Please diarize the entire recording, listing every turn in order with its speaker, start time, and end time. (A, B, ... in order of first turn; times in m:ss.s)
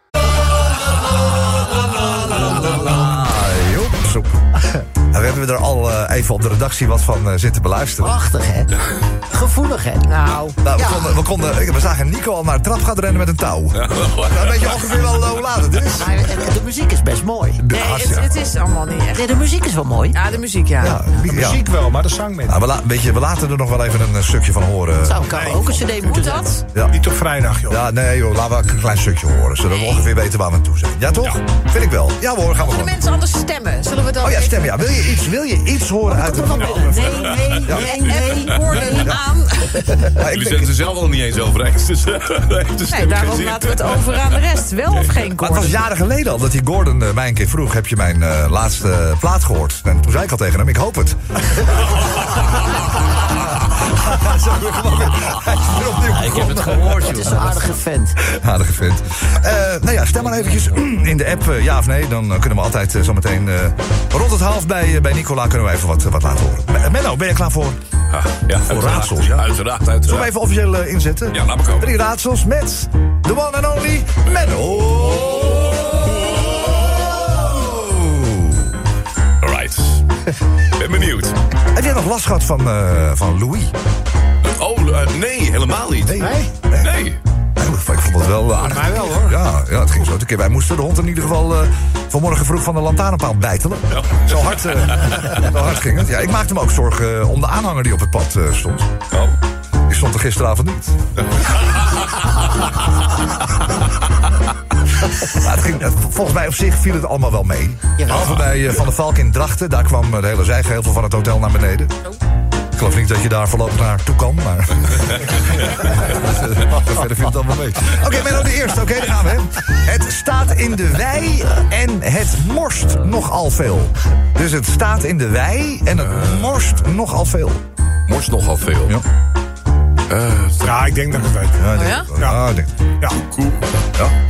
0:02.4-0:04.3 A
0:05.1-0:08.2 A
0:08.0-0:08.7 B
0:09.3-0:10.1 B
0:10.1-0:10.6 C
0:10.6-0:16.3 A
0:10.7-0:11.1 B
0:13.8-0:14.9 D
0:16.0-0:17.6 B
0:17.6-0:18.5 A
0:17.7-0:19.4 C
0:19.1-0:20.2 B
0:20.1-0:21.1 C
0:20.8-0:21.7 A
0:21.2-0:22.6 E
0:22.5-0:25.8 A
0:25.0-0:26.6 B
0:25.3-0:25.6 E
0:26.0-0:26.5 C
0:26.9-0:27.8 E
0:27.7-0:33.0 A
0:32.6-0:35.1 C
0:34.2-0:38.2 A
0:36.1-0:39.1 B
0:36.5-0:37.8 D
0:37.7-0:39.9 C
0:38.4-0:38.8 D
0:38.9-0:39.2 A
0:40.2-0:40.7 A
0:40.2-0:45.4 D
0:42.9-0:45.7 C
0:45.4-0:51.6 A
0:53.1-0:57.5 A
0:56.1-0:58.2 B
0:58.2-1:07.8 A
1:08.1-1:10.3 D
1:08.5-1:09.4 A
1:10.0-1:15.6 A
1:11.3-1:11.9 D
1:17.8-1:18.2 A
1:19.4-1:20.0 D
1:20.8-1:21.4 D
1:21.7-1:23.7 A
1:24.4-1:27.2 D
1:26.2-1:26.9 A
1:27.6-1:38.9 A
1:28.7-1:29.3 E
1:35.0-1:35.3 D
1:39.9-1:41.0 A
1:45.3-1:51.9 A
1:52.7-2:07.6 A
2:06.0-2:06.6 D
2:08.1-2:09.0 D
2:10.1-2:11.3 D
2:10.6-2:12.4 E
2:11.6-2:12.7 A
2:11.7-2:12.1 C
2:13.1-2:13.6 D